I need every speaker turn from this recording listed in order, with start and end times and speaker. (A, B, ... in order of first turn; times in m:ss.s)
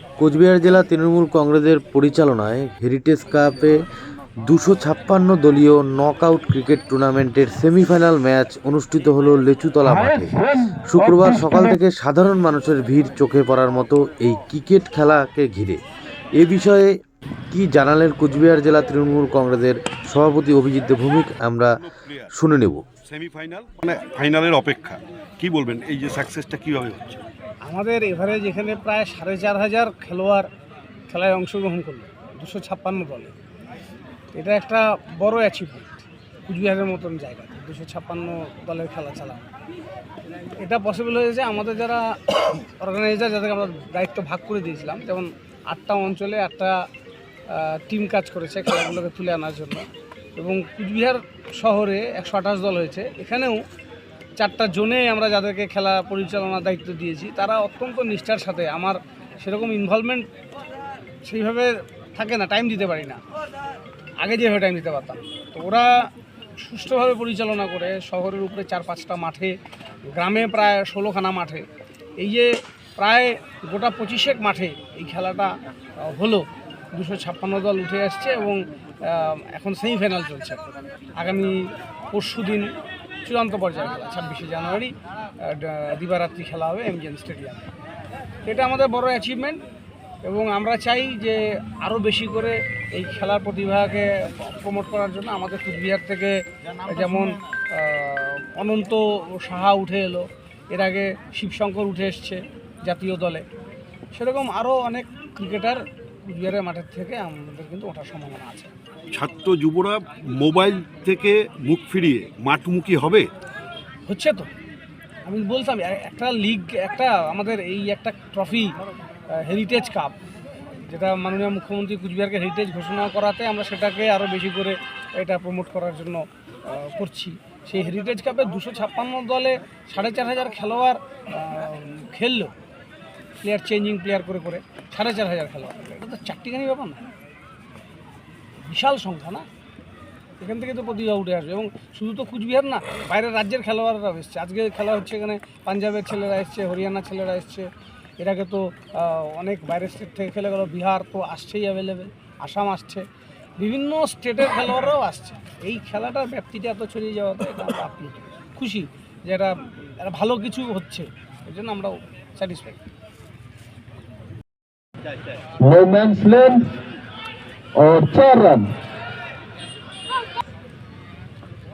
0:00.2-0:03.8 A
0:04.4-0:10.4 A
0:09.8-0:11.8 B
0:10.9-0:15.8 A
0:16.4-0:16.9 A
0:17.5-0:21.7 A
0:21.8-0:22.3 C
0:22.3-0:22.8 A
0:23.0-0:27.2 C
0:27.6-0:30.5 D
0:31.1-0:33.4 D
0:34.3-0:39.5 D
0:40.6-0:46.8 D
0:47.5-0:49.8 D
0:50.4-0:53.6 D
0:54.4-1:00.3 D
1:01.2-1:03.2 D
1:04.2-1:06.1 D
1:06.6-1:09.5 D
1:10.1-1:11.6 D
1:12.2-1:20.6 D
1:21.2-1:22.7 D
1:23.2-1:27.7 D
1:28.4-1:29.6 D
1:30.2-1:43.4 D
1:44.1-1:48.7 D
1:49.1-1:53.3 C
1:54.1-1:54.5 D
1:55.2-1:58.7 D
1:59.3-2:00.2 D
2:00.8-2:12.5 D
2:13.4-2:17.0 D
2:18.6-2:19.5 D
2:20.4-2:27.7 D
2:28.2-2:33.0 D
2:33.6-2:42.8 D
2:45.6-2:46.6 B
2:47.7-2:48.7 B